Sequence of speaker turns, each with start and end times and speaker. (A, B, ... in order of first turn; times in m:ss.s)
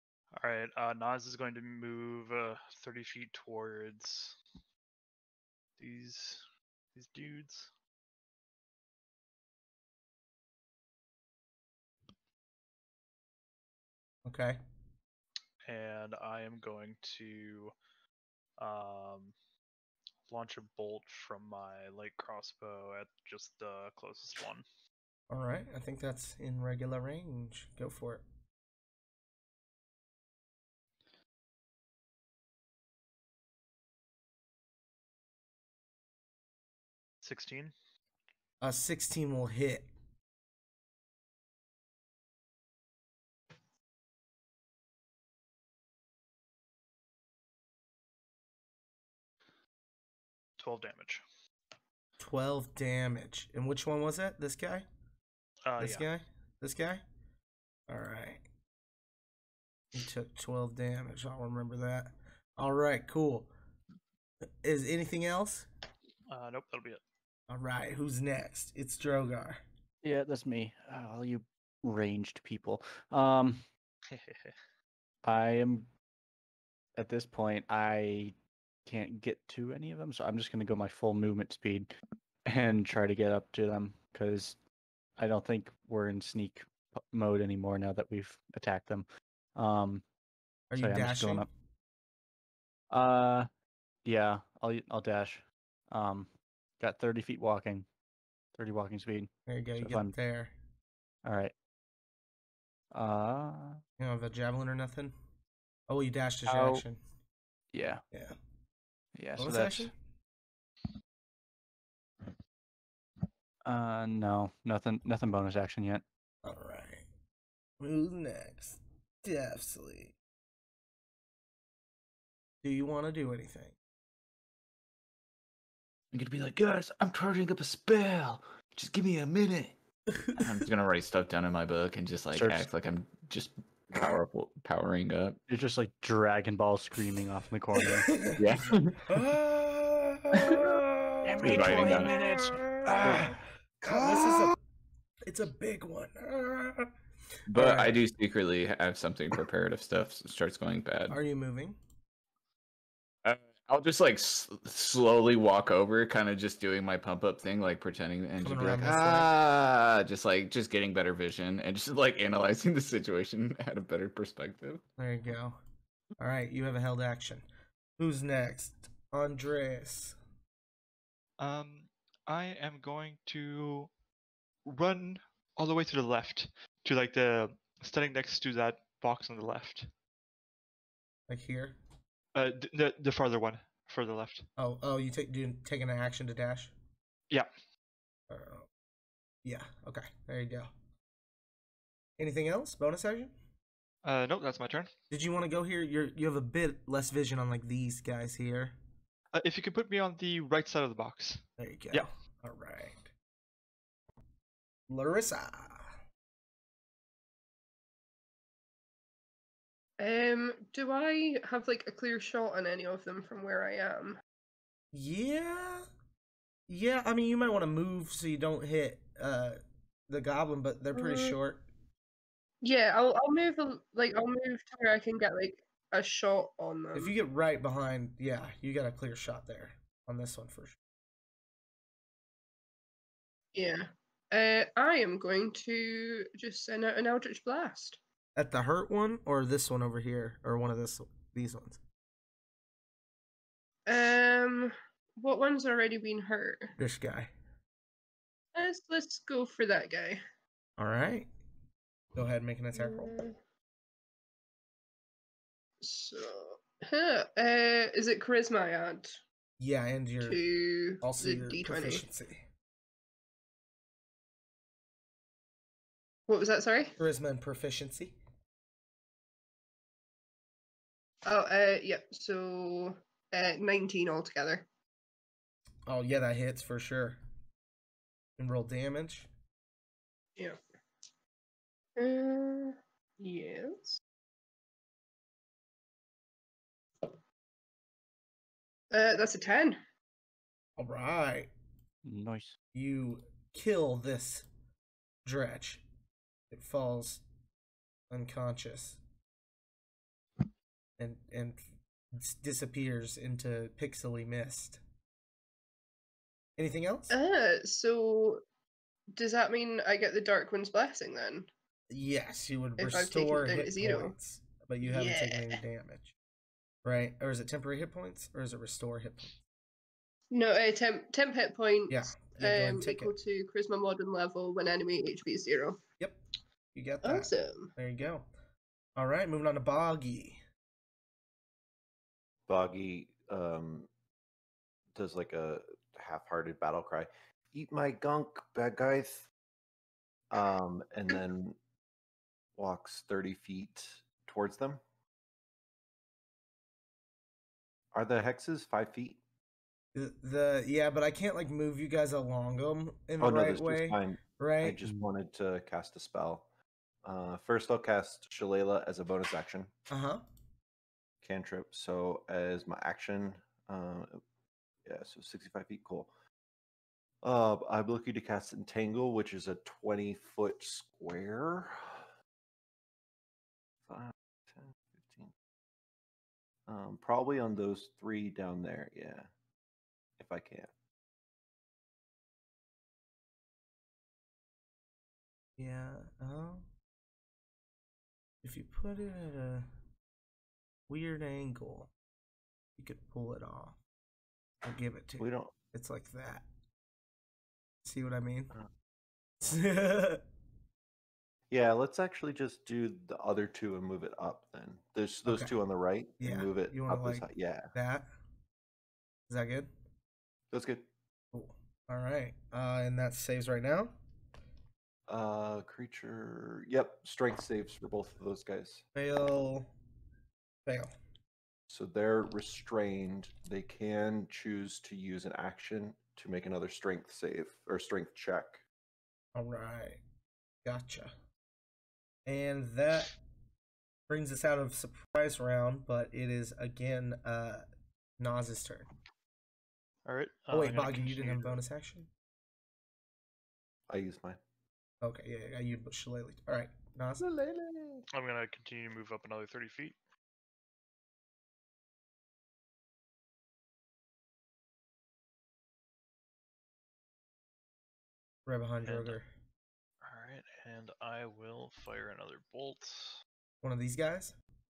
0:00.3-0:04.4 A
0:05.8-0:06.4 A
0:06.9-0:07.7 A
0:14.2-0:14.6 B
0:15.6-0:17.7 A
0:18.6-0:19.3 A
0:20.3-0:24.6 A
0:25.3-0:28.2 B
0:37.2-0:37.7 A
0:38.6-0:39.9 B
0:50.6-0:51.2 A
0:52.2-0:54.8 B
0:55.6-0:56.1 A
0:55.8-0:57.0 B
0:57.9-0:58.4 B
0:59.9-1:03.5 B
1:04.6-1:05.7 B
1:06.3-1:07.0 A
1:07.5-1:09.6 B
1:10.0-1:13.6 C
1:14.1-1:14.5 A
1:15.2-1:15.9 C
1:17.0-1:18.3 C
1:18.8-1:21.9 C
1:22.4-1:24.6 C
1:25.2-1:30.0 C
1:30.7-1:31.5 B
1:30.8-1:31.5 C
1:32.9-1:33.5 C
1:34.0-1:37.9 C
1:38.5-1:40.1 C
1:39.5-1:40.5 B
1:41.2-1:41.5 C
1:42.9-1:43.8 C
1:44.0-1:45.1 B
1:45.9-1:47.0 B
1:46.5-1:46.8 C
1:47.7-1:48.0 C
1:48.1-1:48.4 B
1:49.2-1:49.9 C
1:49.4-1:49.9 B
1:53.6-1:56.0 C
1:56.4-1:57.0 B
1:57.8-2:00.1 B
2:02.6-2:03.7 B
2:06.1-2:09.7 D
2:10.4-2:15.4 D
2:12.3-2:12.6 C
2:15.5-2:18.1 C
2:17.8-2:18.4 B
2:18.4-2:19.2 D
2:19.1-2:24.6 B
2:20.3-2:20.7 D
2:21.2-2:23.3 C
2:21.4-2:22.1 D
2:22.9-2:23.3 D
2:23.9-2:24.5 D
2:25.2-2:26.9 B
2:27.5-2:31.2 D
2:27.5-2:28.0 B
2:31.1-2:31.8 B
2:33.2-2:44.8 D
2:38.4-2:39.3 B
2:45.0-2:45.6 B
2:46.2-2:47.4 B
2:48.0-2:50.2 B
2:51.4-2:53.9 E
2:54.6-2:59.9 E
3:01.3-3:01.8 B
3:02.3-3:04.5 E
3:04.6-3:06.7 B
3:08.3-3:08.7 B
3:09.4-3:10.7 B
3:12.2-3:13.3 B
3:14.0-3:14.9 E
3:15.1-3:18.8 B
3:19.3-3:22.0 E
3:21.6-3:23.1 B
3:24.9-3:26.0 B
3:30.0-3:34.2 F
3:34.9-3:35.9 B
3:36.7-3:41.7 B
3:40.9-3:41.4 F
3:42.6-3:47.1 F
3:46.9-3:50.8 B
3:53.5-3:58.0 F
3:58.4-4:01.8 B
4:03.9-4:06.7 F
4:06.8-4:07.3 B
4:08.5-4:10.2 F
4:10.8-4:11.3 B
4:12.1-4:13.2 B
4:12.7-4:13.4 F
4:15.8-4:19.2 F
4:19.6-4:20.4 B
4:20.2-4:22.0 F
4:21.0-4:22.4 B
4:26.3-4:26.9 F
4:27.0-4:28.2 B
4:31.2-4:34.7 F
4:35.9-4:37.2 B
4:38.4-4:39.3 B
4:42.0-4:44.0 F
4:48.9-4:49.8 F
4:50.8-4:51.5 B
4:52.0-4:52.6 C
4:52.7-4:54.5 B
4:55.2-4:55.8 B
4:56.5-4:57.2 B
4:58.1-4:59.0 B
5:01.0-5:01.6 B
5:02.1-5:04.8 B
5:06.6-5:07.1 B
5:07.1-5:08.4 F
5:09.1-5:11.5 F
5:11.9-5:16.1 B
5:12.8-5:14.1 F
5:14.8-5:15.6 F
5:16.8-5:19.3 B
5:20.3-5:25.8 F
5:21.9-5:23.1 B
5:26.7-5:28.3 B
5:27.0-5:27.7 F
5:29.0-5:30.4 B
5:32.5-5:33.9 G
5:34.9-5:39.3 G
5:40.3-5:41.6 G
5:42.5-5:44.8 G
5:47.9-5:49.2 G
5:49.9-5:54.8 B
5:53.2-5:56.4 G
5:57.0-5:59.7 G
5:59.9-6:00.2 B
6:01.2-6:04.2 G
6:04.8-6:06.1 G
6:07.2-6:12.1 G
6:13.9-6:15.3 G
6:16.7-6:19.3 G
6:20.2-6:20.7 G
6:25.6-6:26.6 B
6:28.4-6:29.7 B
6:30.9-6:31.9 B
6:32.8-6:33.8 B
6:34.6-6:36.4 B
6:35.2-6:35.5 G
6:37.8-6:38.5 B
6:39.4-6:40.2 B
6:41.5-6:47.7 G
6:45.2-6:45.5 B
6:46.2-6:48.1 B
6:49.3-6:49.7 B
6:50.5-6:50.9 G
6:51.3-6:54.0 B
6:55.1-6:58.8 G
6:58.9-6:59.7 B
7:00.6-7:00.9 B
7:01.7-7:08.6 G
7:09.3-7:10.0 B
7:10.6-7:11.1 B
7:12.2-7:13.1 B
7:14.1-7:17.6 B
7:18.2-7:18.9 B
7:20.0-7:21.6 A
7:20.5-7:22.1 B
7:23.9-7:24.4 G
7:25.0-7:27.5 B
7:28.1-7:30.0 A
7:38.4-7:39.3 B
7:38.8-7:39.2 A
7:40.0-7:43.2 A
7:43.6-7:44.4 B